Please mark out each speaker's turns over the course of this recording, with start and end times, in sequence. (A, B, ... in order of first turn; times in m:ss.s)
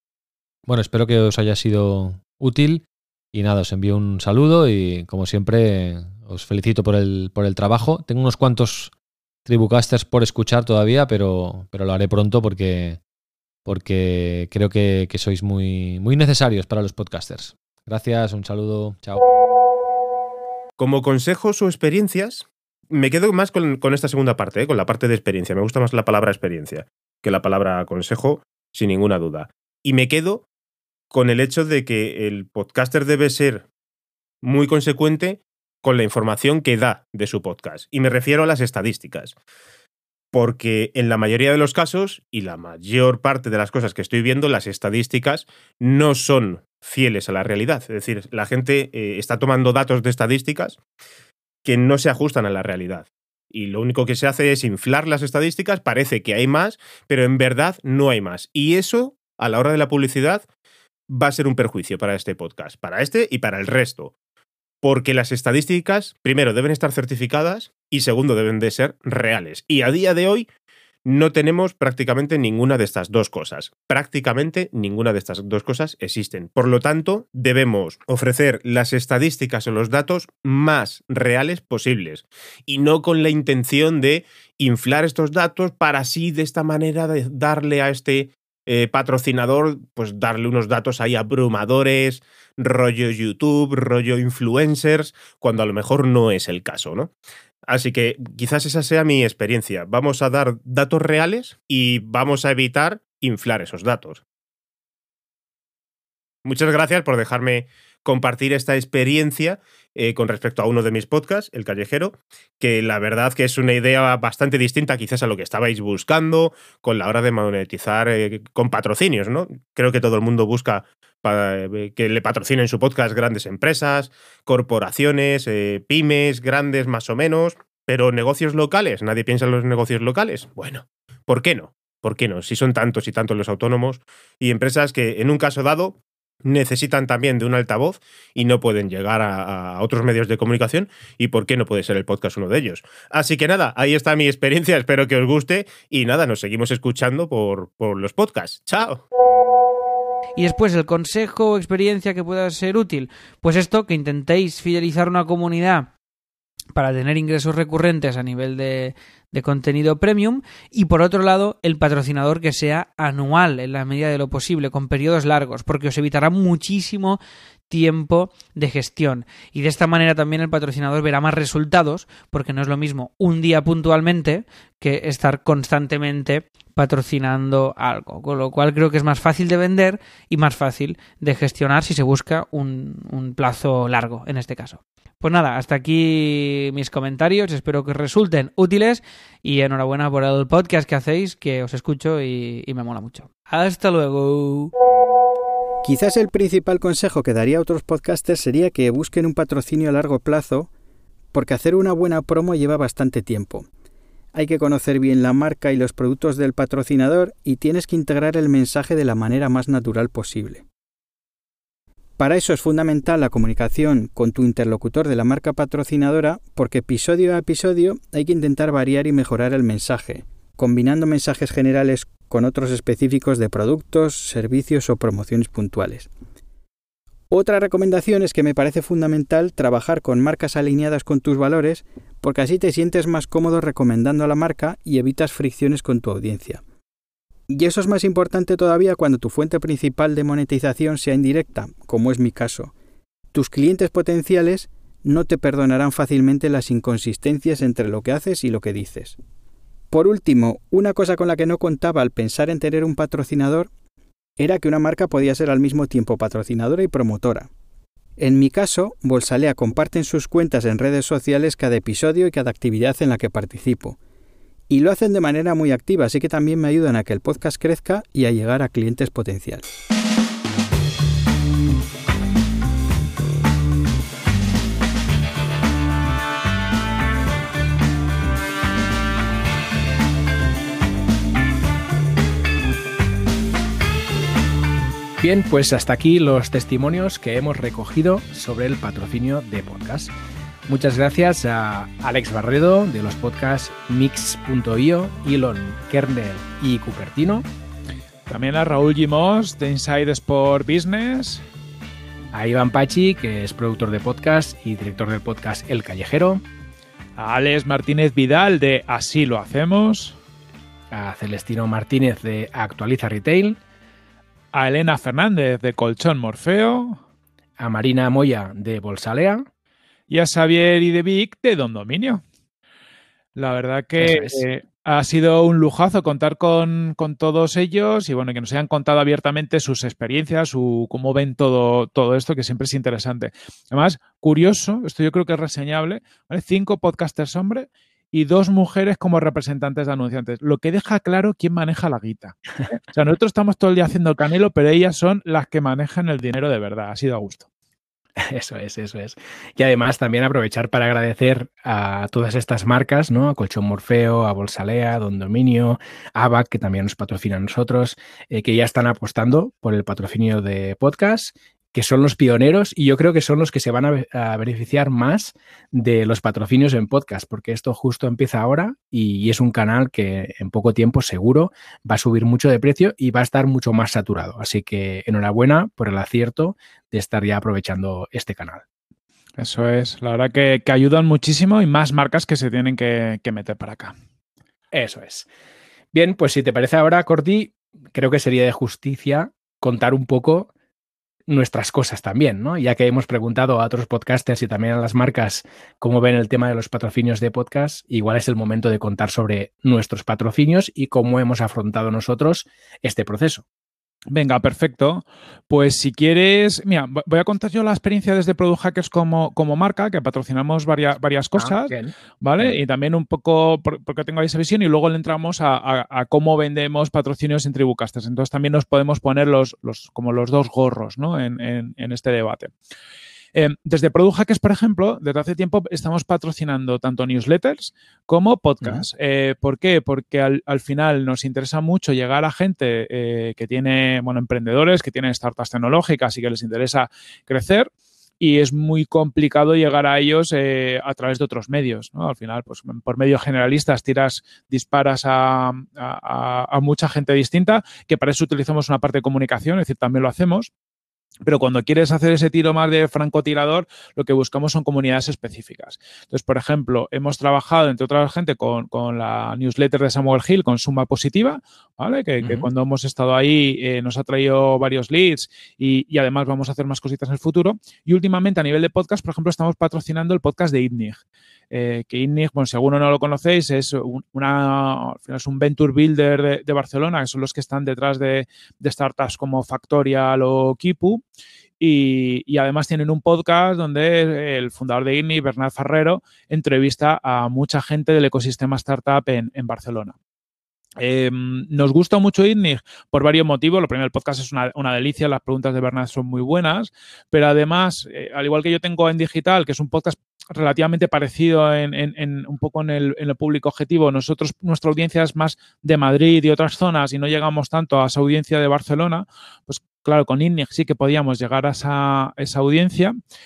0:00.6-0:08.9 A
0:09.4-0:13.0 A
0:13.6-0:19.2 A
0:20.8-0:30.4 B
0:31.1-0:33.6 B
0:34.4-0:39.3 B
0:40.3-0:50.8 B
0:51.6-1:00.4 B
1:01.1-1:04.1 B
1:04.8-1:10.5 B
1:11.0-1:37.1 B
1:37.7-1:44.2 B
1:46.4-2:29.0 B
2:30.4-2:35.9 C
2:36.7-3:14.7 C
3:15.8-3:20.7 D
3:21.3-3:23.6 D
3:24.3-3:30.6 D
3:32.2-3:46.1 D
3:47.3-3:56.6 D
3:57.5-4:02.7 D
4:03.3-4:09.2 D
4:09.9-4:13.7 D
4:14.4-4:17.5 D
4:18.2-4:24.0 D
4:24.7-4:29.7 D
4:45.2-4:50.1 E
4:50.7-4:57.5 E
4:58.3-5:01.4 F
5:02.3-5:06.4 E
5:07.2-5:10.2 F
5:10.9-5:13.6 E
5:14.5-5:17.0 F
5:17.6-5:19.4 E
5:20.1-5:22.2 F
5:23.4-5:47.5 F
5:24.0-5:24.4 E
5:48.2-6:18.6 E
6:19.4-6:23.9 F
6:24.7-6:25.3 E
6:25.9-6:30.5 E
6:31.3-6:43.4 E
6:44.1-7:02.5 F
6:51.4-6:52.6 E
7:03.3-7:30.5 F
7:31.2-7:51.0 F
7:42.2-7:42.5 E
7:51.5-8:01.0 F
8:01.6-8:09.9 F
8:10.8-8:33.0 F